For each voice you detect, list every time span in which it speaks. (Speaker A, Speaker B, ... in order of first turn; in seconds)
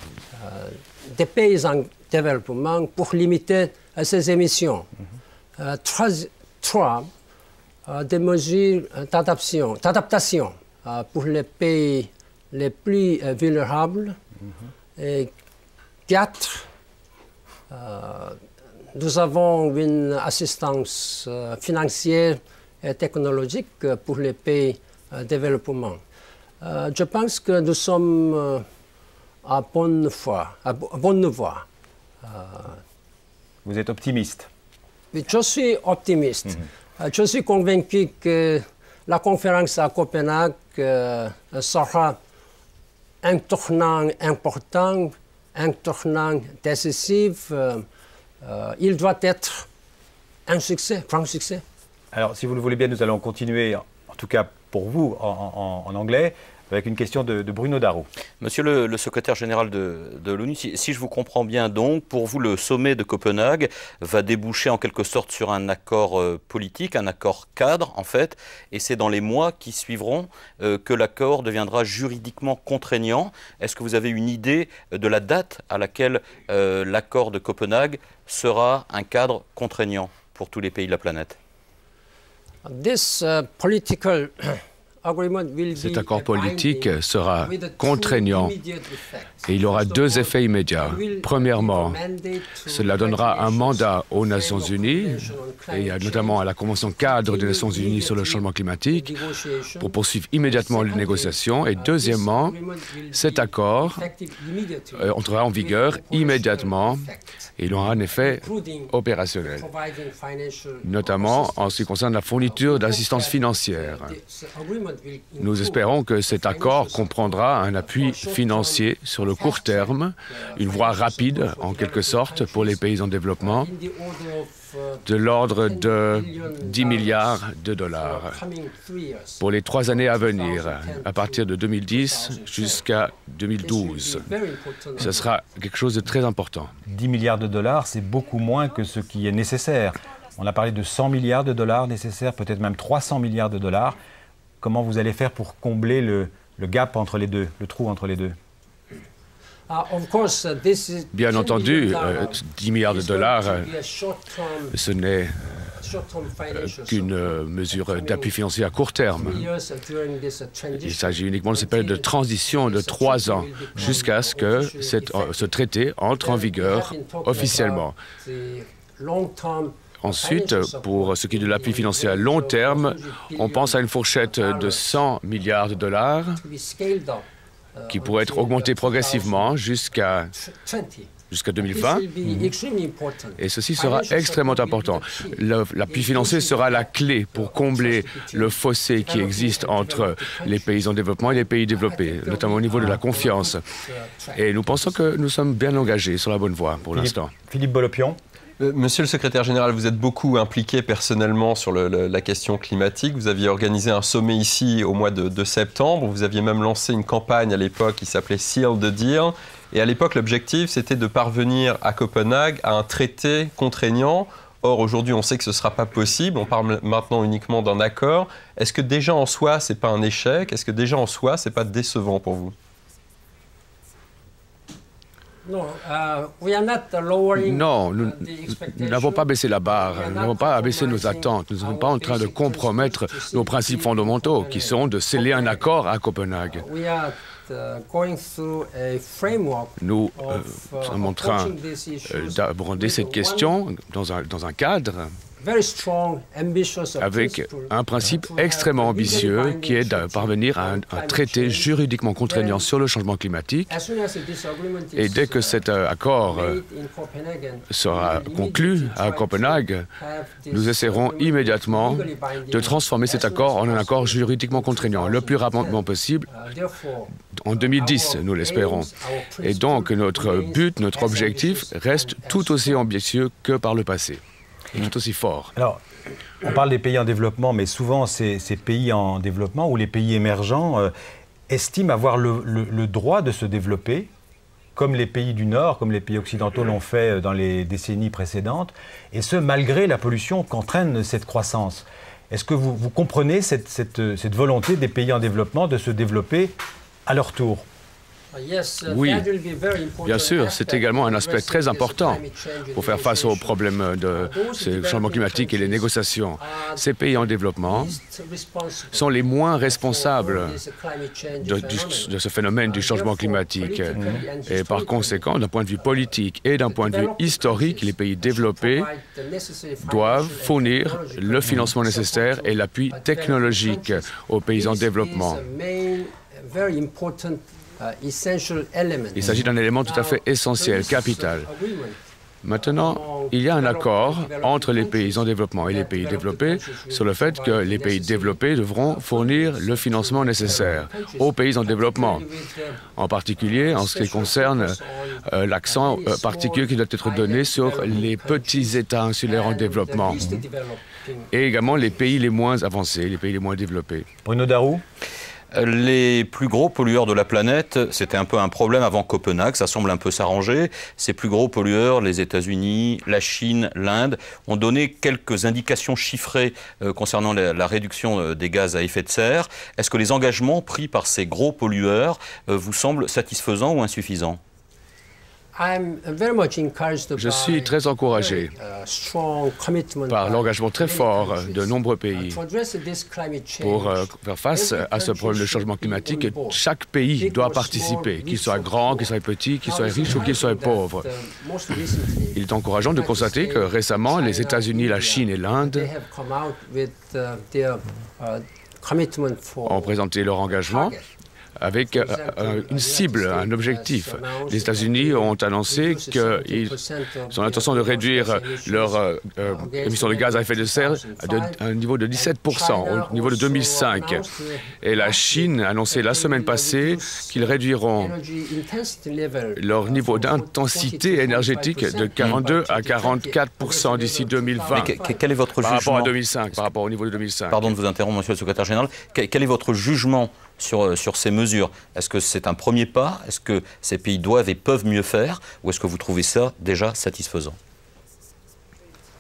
Speaker A: 0.3-4.9, 5.6-7.1, 7.9-14.2, 15.0-15.3, 16.1-16.7, 17.7-18.4, 18.9-26.0, 26.6-28.7, 29.4-31.7, 32.2-32.8, 35.1-42.2, 43.2-47.9, 48.4-49.7, 50.5-51.6, 82.7-96.4, 97.0-107.5, 108.2-122.8, 123.4-127.4, 127.9-132.9, 133.6-135.3, 149.7-154.8, 155.8-158.4, 159.2-165.5, 166.2-175.0, 176.4-179.6, 180.3-181.1, 181.6-194.9, 225.4-235.7, 236.5-243.5, 245.4-252.7, 253.7-255.7, 256.3-272.8, 298.3-306.9, 307.7-312.1, 312.7-315.2, 316.7-329.3, 329.8-332.0, 332.6-342.9, 343.4-351.3, 375.6-386.6, 387.2-400.0, 400.7-401.1, 401.9-411.6, 412.1-425.2
Speaker B: 33.6-34.5, 52.1-58.1, 136.9-144.0, 144.6-148.4, 196.9-198.2, 275.6-275.8, 276.4-280.9, 281.5-284.1, 284.8-297.7, 313.9-314.2, 354.2-354.8
Speaker C: 58.4-81.4, 355.5-374.4, 424.7-426.6, 427.5-437.6
Speaker D: 85.8-88.5, 89.5-92.0, 92.7-99.1, 99.8-102.6, 103.1-104.0, 105.0-107.0, 107.6-109.7, 110.8-114.1, 115.4-123.7, 125.1-128.4, 129.4-134.3, 135.0-136.7, 151.1-153.7, 154.7-155.5, 156.6-159.5, 160.8-167.9, 170.0-176.4, 177.9-180.3, 181.3-182.1, 183.4-193.6, 194.4-197.3, 227.4-236.7, 239.8-241.6, 242.1-245.2, 247.0-253.7, 255.0-256.6, 257.7-259.9, 260.5-266.3, 267.4-268.9, 269.4-274.2, 274.7-275.5, 298.9-299.3, 300.0-302.2, 302.8-308.0, 308.9-310.6, 311.4-318.9, 319.8-325.4, 329.2-331.5, 332.4-342.3, 342.9-350.4, 351.3-354.1, 377.2-378.5, 380.1-382.4, 383.6-391.1, 392.4-395.9, 399.7-401.0, 401.6-406.8, 407.3-414.3, 414.8-418.1, 419.6-425.0, 425.6-427.7
Speaker E: 198.6-222.5